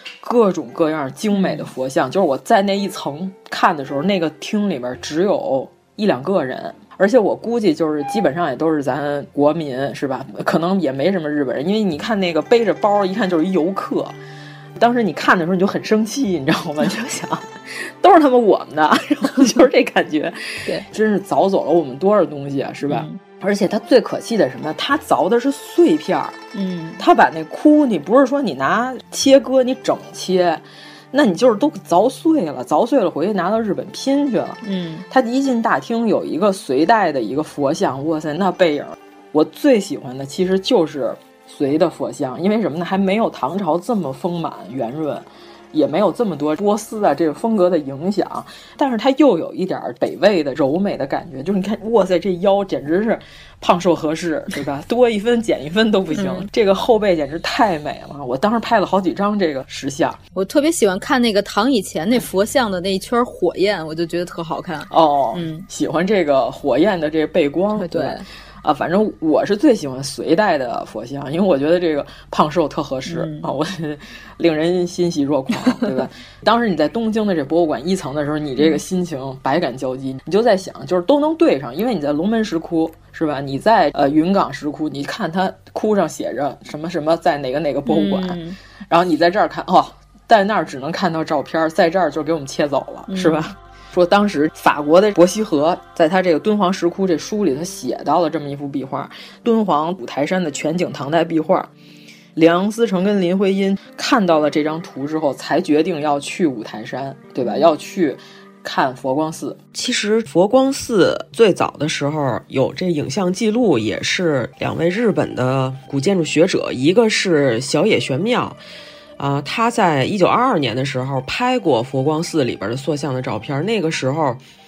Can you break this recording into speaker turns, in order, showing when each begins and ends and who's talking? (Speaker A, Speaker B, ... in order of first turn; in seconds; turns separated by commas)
Speaker A: 0.2-14.2, Speaker B: 1.3-1.7, Speaker A: 14.8-26.4, Speaker B: 22.9-23.2, Speaker B: 26.5-27.0, Speaker A: 27.0-60.2, Speaker B: 34.6-35.1, Speaker B: 56.1-56.5, Speaker B: 60.4-65.7, Speaker A: 64.9-88.4, Speaker B: 67.8-68.2, Speaker B: 73.1-73.5, Speaker B: 87.9-88.6, Speaker A: 88.9-101.7, Speaker B: 93.1-93.4, Speaker A: 102.4-109.6, Speaker C: 109.7-118.6, Speaker C: 119.2-124.4